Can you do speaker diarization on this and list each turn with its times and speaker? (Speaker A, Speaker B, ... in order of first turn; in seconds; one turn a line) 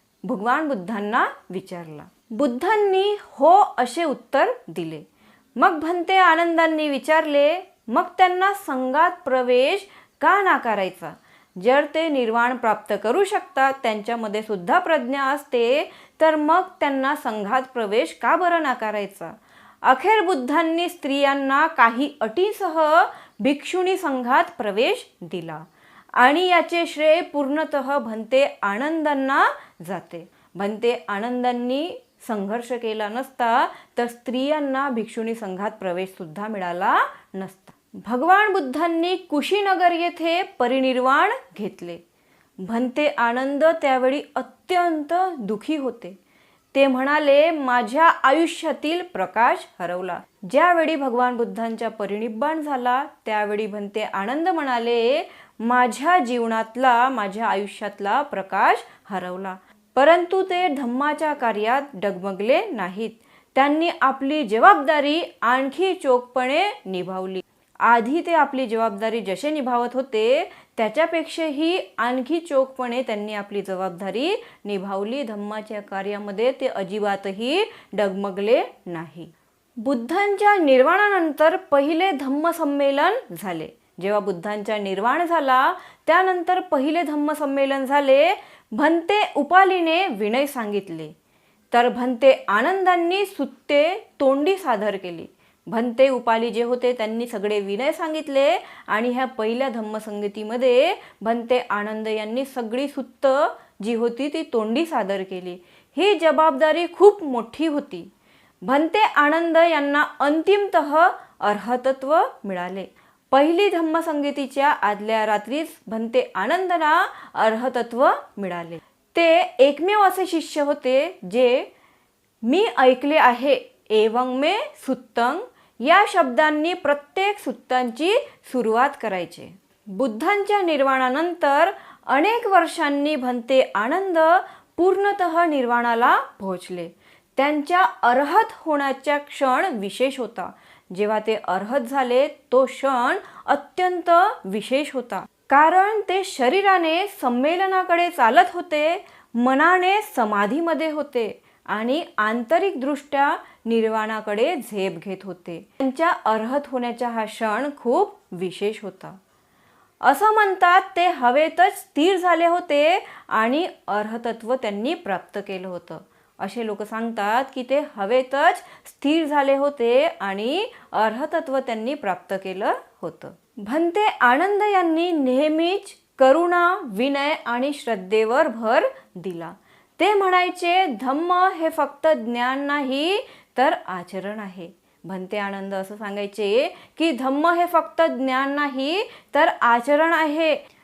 Speaker A: 0.2-5.0
Speaker A: 5.6-25.6
Speaker A: 26.2-42.0
Speaker A: 42.6-46.2
Speaker A: 46.7-91.1
Speaker A: 91.7-108.1
Speaker A: 108.6-121.7
Speaker A: 122.4-159.2
Speaker A: 160.0-190.6